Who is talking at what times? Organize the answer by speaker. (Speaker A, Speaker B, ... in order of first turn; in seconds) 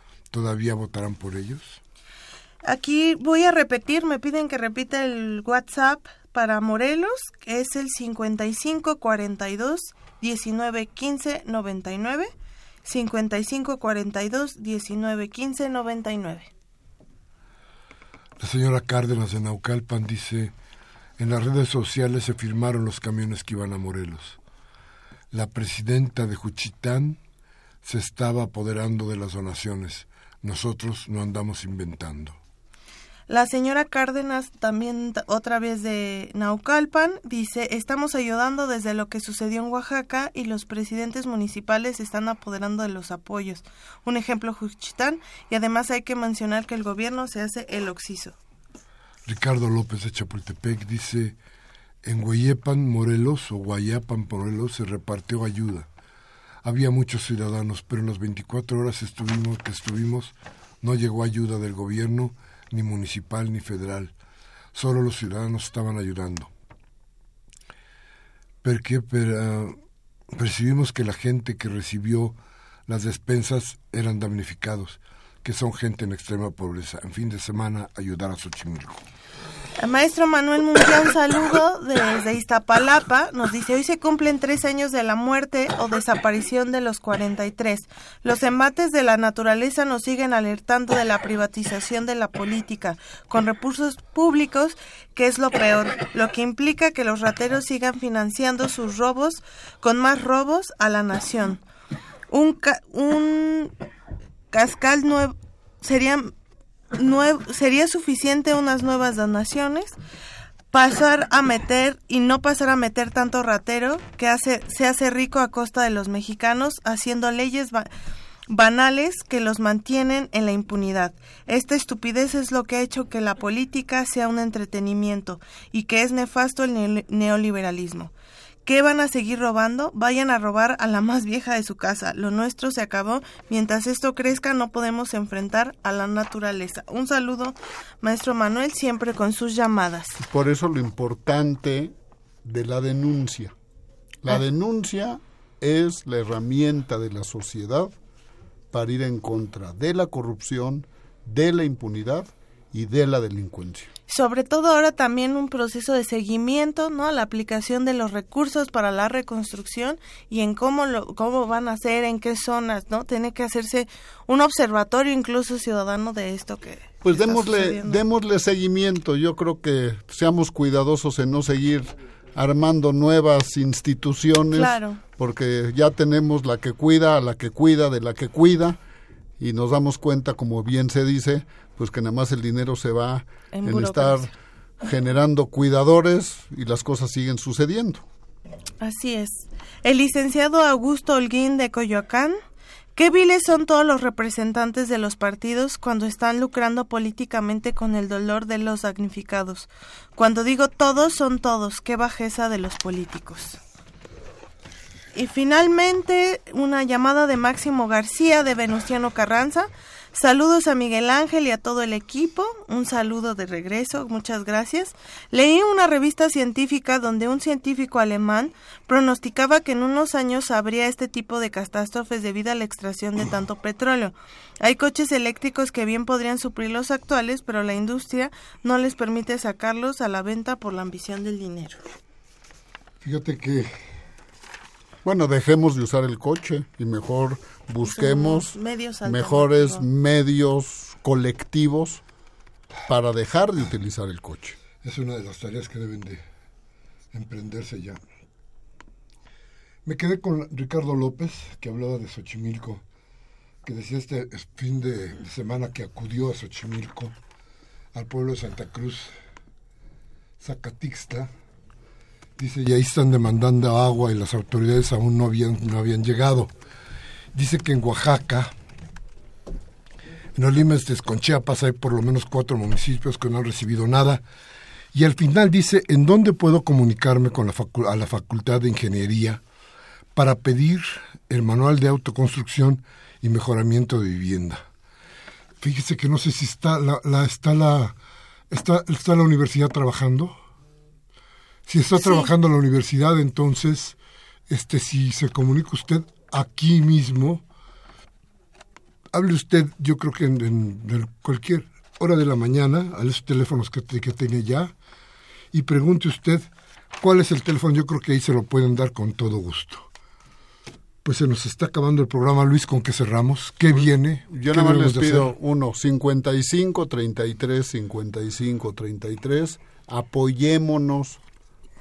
Speaker A: 0.3-1.8, 18.4-20.5, 21.2-24.4, 25.3-27.2, 27.8-32.4, 49.2-51.4, 52.0-55.9, 56.6-64.1, 64.7-66.5, 68.6-69.8, 70.3-72.3, 72.9-79.0, 233.0-233.8, 244.8-246.2, 247.1-248.0, 249.8-252.8, 253.6-257.1, 257.9-259.1, 260.4-261.3, 262.4-266.5, 267.3-268.5, 270.4-274.2, 274.9-279.4, 280.1-284.6, 285.6-287.9, 288.5-290.3, 291.7-293.9, 294.5-297.4, 299.1-304.7, 305.5-306.5, 307.0-309.9, 311.0-315.3
Speaker B: 2.6-12.3, 12.8-16.5, 33.3-48.4, 79.8-101.6, 102.3-103.7, 104.5-106.3, 106.9-110.0, 110.7-117.9, 118.5-128.1, 128.6-140.2, 154.1-168.0, 174.5-175.0, 183.5-184.3, 188.8-192.4, 192.9-203.6, 205.1-231.8, 237.8-239.8, 291.9-292.3
Speaker C: 140.2-143.5, 144.2-147.9, 148.7-153.9, 167.0-178.8, 179.4-188.0, 235.0-242.0, 242.9-244.6, 313.7-321.2